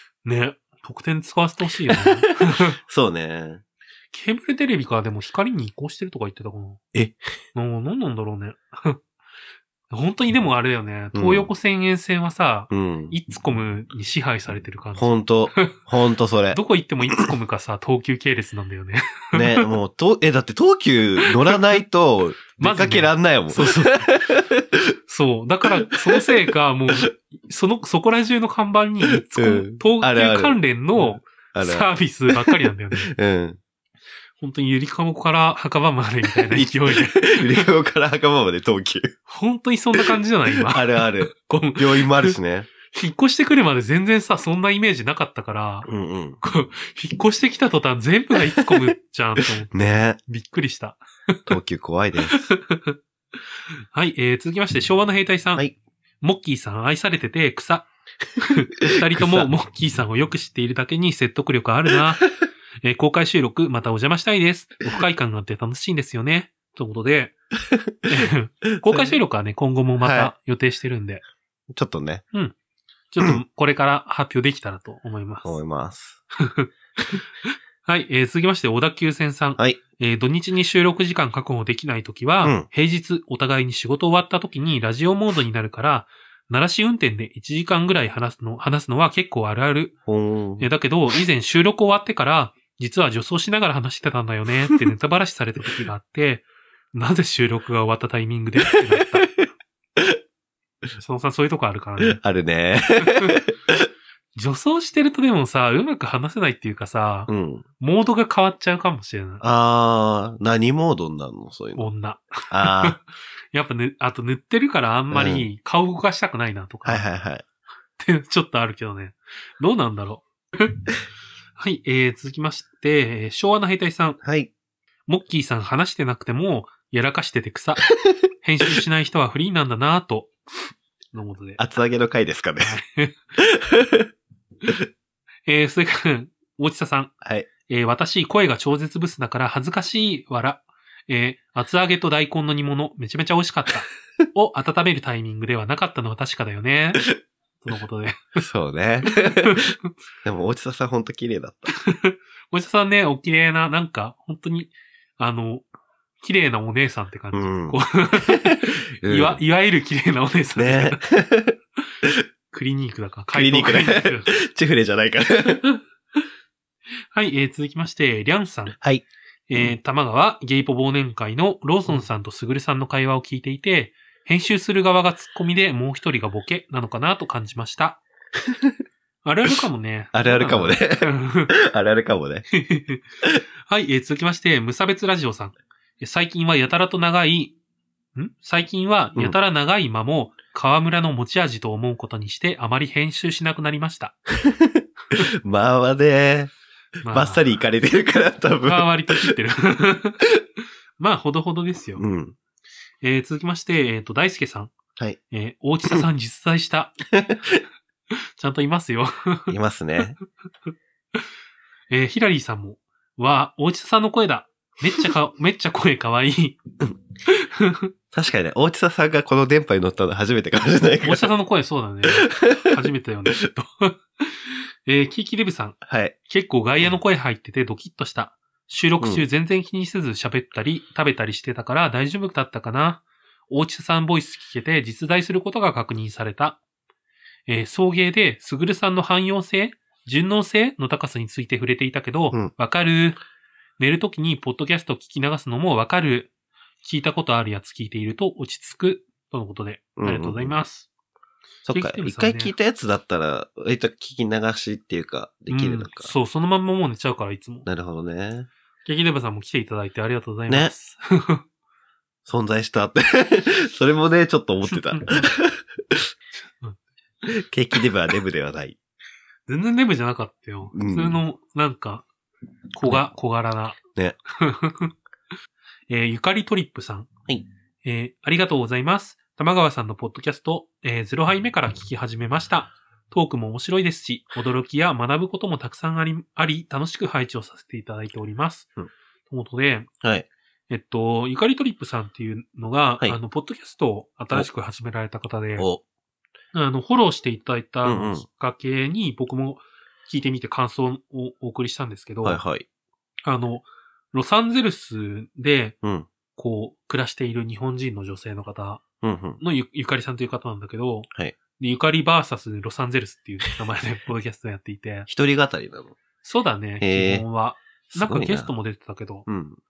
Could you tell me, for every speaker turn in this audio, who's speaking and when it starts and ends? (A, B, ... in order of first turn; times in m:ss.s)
0:00.2-0:02.8 A
0:01.9-0:03.6 B
0:04.1-0:06.8 A
0:07.6-0:09.0 A
0:09.9-0:15.8 A
0:11.1-0:11.5 B
0:12.7-0:13.1 B
0:15.0-0:16.6 B
0:16.5-0:19.7 A
0:19.3-0:24.9 B
0:21.2-0:21.6 A
0:22.6-0:24.2 A
0:25.1-0:33.1 A
0:25.7-0:26.5 B
0:29.3-0:33.6 B
0:34.4-0:37.6 A
0:36.3-0:39.1 B
0:39.3-0:42.3 A
0:40.0-0:42.7 B
0:42.9-0:45.9 A
0:45.9-0:46.4 B
0:46.4-0:49.7 A
0:48.6-0:48.9 B
0:49.7-0:50.2 B
0:50.3-0:51.4 A
0:51.5-0:52.4 B
0:52.3-0:53.0 A
0:53.9-0:55.6 A
0:56.2-0:57.9 A
0:58.4-1:02.3 A
0:58.9-0:59.5 B
1:01.9-1:02.3 B
1:02.8-1:07.3 A
1:07.6-1:08.1 B
1:08.1-1:11.2 A
1:08.6-1:09.2 B
1:10.0-1:10.3 B
1:11.7-1:12.2 B
1:13.1-1:15.6 A
1:15.4-1:16.2 B
1:16.4-1:29.9 A
1:30.1-1:30.7 B
1:30.6-1:39.3 A
1:38.7-1:39.3 B
1:41.0-1:42.2 A
1:42.0-1:43.9 B
1:43.0-1:43.4 A
1:44.4-1:49.4 A
1:47.3-1:47.6 B
1:49.4-1:51.9 B
1:51.8-1:53.0 A
1:52.5-1:53.0 B
1:53.5-1:57.1 A
1:55.1-1:55.5 B
1:56.8-1:57.4 B
1:58.0-2:00.8 A
2:01.6-2:04.2 A
2:04.2-2:04.5 B
2:05.1-2:07.9 A
2:08.4-2:10.3 A
2:11.1-2:11.6 A
2:11.6-2:12.8 B
2:12.6-2:13.2 A
2:13.4-2:14.1 B
2:15.5-2:17.1 A
2:17.2-2:17.5 B
2:17.7-2:27.1 A
2:27.6-2:28.4 A
2:28.4-2:29.7 B
2:29.3-2:29.8 A
2:30.2-2:31.7 B
2:31.8-2:35.6 A
2:36.2-2:41.0 A
2:37.3-2:39.4 B
2:40.6-2:42.2 B
2:42.5-2:44.4 A
2:43.3-2:45.6 B
2:45.5-2:45.8 A
2:47.1-2:48.8 A
2:49.5-2:58.0 A
2:58.5-2:58.7 B
2:59.2-3:01.5 A
3:00.1-3:02.5 B
3:02.5-3:03.0 A
3:03.7-3:07.5 A
3:08.2-3:14.2 A
3:14.3-3:16.5 B
3:17.0-3:17.4 A
3:17.1-3:18.9 B
3:18.6-3:20.2 A
3:21.0-3:22.0 A
3:22.0-3:22.4 B
3:23.0-3:24.7 A
3:25.3-3:27.0 A
3:27.1-3:27.6 B
3:28.1-3:29.6 A
3:29.5-3:30.2 B
3:31.9-3:36.6 A
3:37.3-3:37.9 A
3:38.1-3:41.3 B
3:41.0-3:56.6 A
3:42.1-3:42.7 B
3:45.8-3:46.1 B
3:57.5-4:03.2 A
4:03.8-4:06.3 A
4:06.8-4:10.9 A
4:10.0-4:10.5 B
4:11.6-4:16.1 B
4:11.7-4:12.5 A
4:15.5-4:17.7 A
4:17.6-4:18.5 B
4:18.8-4:21.4 A
4:22.3-4:26.1 B
4:24.9-4:25.3 A
4:27.3-4:28.8 B
4:29.5-4:32.1 A
4:30.7-4:31.2 B
4:32.7-4:33.8 A
4:34.3-4:34.9 A
4:35.9-4:37.1 A
4:37.8-4:48.7 A
4:49.3-4:49.9 A
4:50.0-4:50.3 B
4:50.7-4:55.7 A
4:55.6-4:55.8 B
4:56.5-5:02.4 A
4:57.8-4:58.2 B
5:02.2-5:02.6 B
5:03.2-5:05.8 A
5:05.8-5:06.1 B
5:06.3-5:08.8 A
5:09.0-5:09.4 B
5:09.4-5:15.1 A
5:15.1-5:16.0 B
5:16.2-5:19.3 A
5:16.8-5:17.3 B
5:17.9-5:18.5 B
5:19.3-5:19.6 B